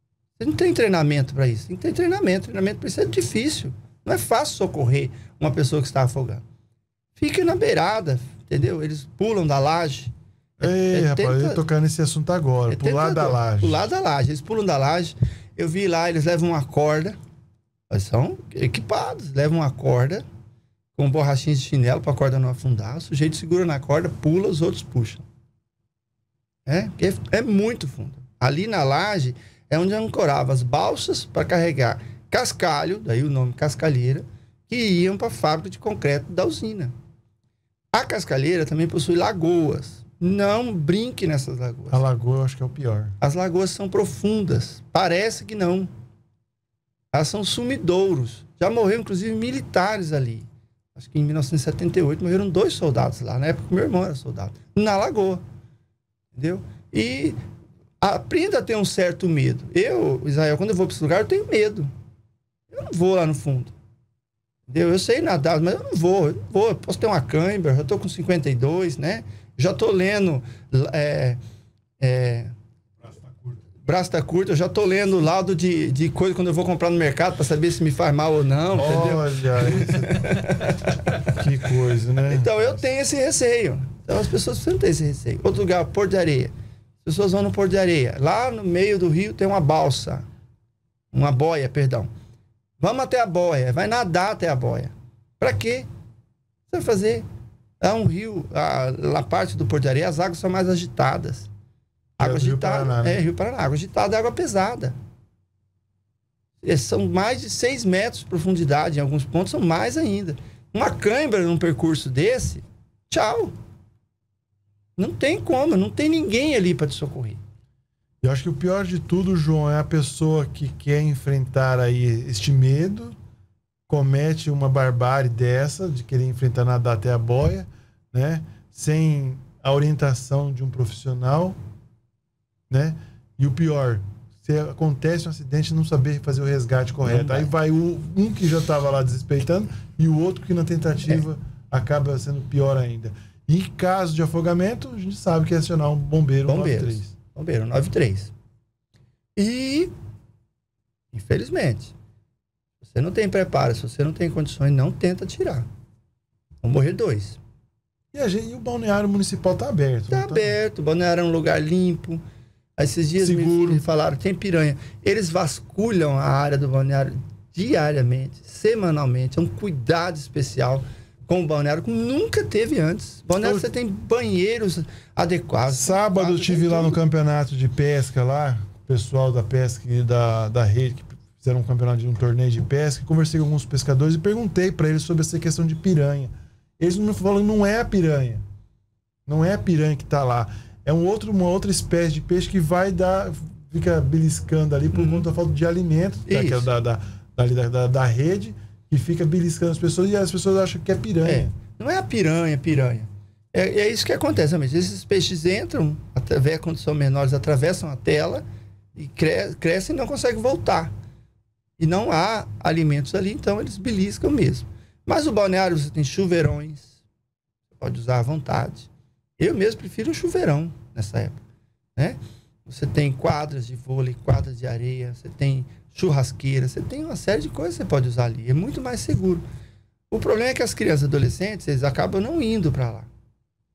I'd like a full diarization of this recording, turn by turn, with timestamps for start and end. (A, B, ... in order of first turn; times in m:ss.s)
0:00.4-0:06.4 A
0:07.2-0:11.6 A
0:10.6-0:13.9 B
0:12.7-0:17.2 A
0:17.9-0:20.2 A
0:21.0-0:25.2 A
0:26.7-0:36.9 A
0:37.9-0:42.0 A
0:41.9-0:43.2 B
0:43.2-0:45.9 A
0:47.1-0:55.4 A
0:56.3-0:57.4 A
0:58.0-1:01.9 A
1:02.7-1:03.7 A
1:04.7-1:11.4 A
1:12.0-1:12.5 A
1:13.8-1:21.4 A
1:18.7-1:20.3 B
1:21.2-1:22.8 B
1:22.2-1:30.3 A
1:31.1-1:32.1 A
1:32.8-1:35.9 A
1:36.7-1:37.2 A
1:37.8-1:41.5 A
1:42.2-1:45.0 A
1:42.2-1:43.2 B
1:46.6-1:53.6 A
1:55.0-1:57.4 A
1:58.2-2:03.2 B
2:03.9-2:11.6 B
2:12.7-2:27.1 B
2:17.0-2:17.5 A
2:26.5-2:28.3 A
2:29.4-2:29.9 A
2:31.1-2:31.9 A
2:32.8-2:35.7 A
2:36.6-2:37.4 A
2:38.1-2:40.6 B
2:40.1-2:42.2 A
2:42.8-2:57.0 A
2:43.2-2:43.8 B
2:53.4-2:53.7 B
2:55.7-3:08.4 B
3:09.3-3:21.5 B
3:14.9-3:15.3 A
3:16.3-3:16.7 A
3:21.2-3:28.4 A
3:29.0-3:30.9 A
3:31.8-3:37.0 A
3:37.8-3:41.4 A
3:42.0-3:49.4 A
3:50.1-3:53.1 A